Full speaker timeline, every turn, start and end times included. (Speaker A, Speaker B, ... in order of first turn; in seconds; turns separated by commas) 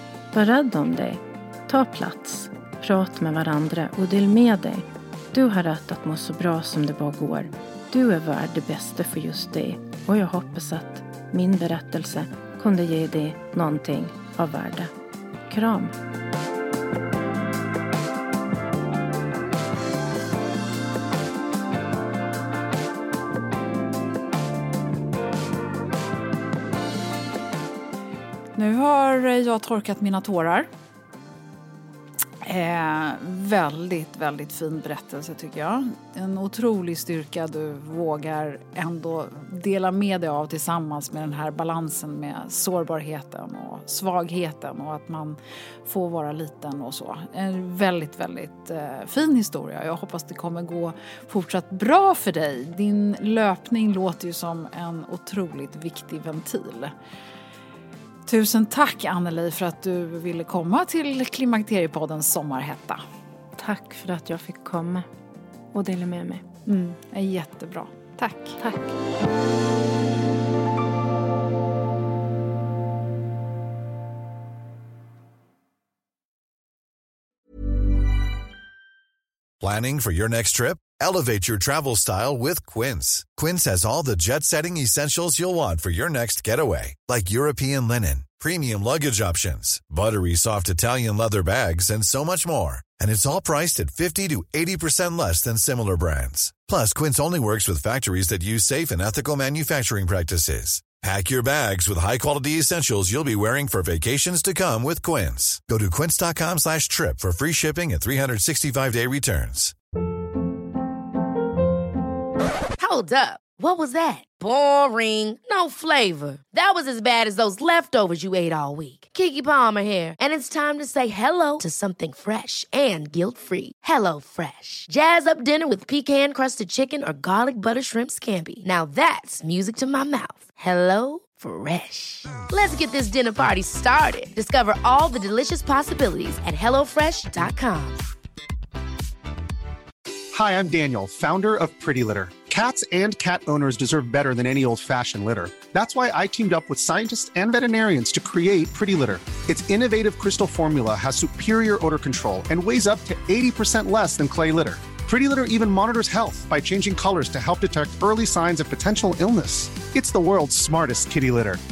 Speaker A: 0.3-14.9, Speaker A: 15.5-15.9, Speaker B: 28.5-30.7, Speaker B: 32.4-56.9, Speaker B: 58.2-63.0, Speaker A: 63.6-65.1, Speaker A: 65.7-66.4, Speaker B: 66.7-68.6, Speaker C: 79.6-109.7, Speaker D: 112.8-138.0, Speaker E: 140.3-161.6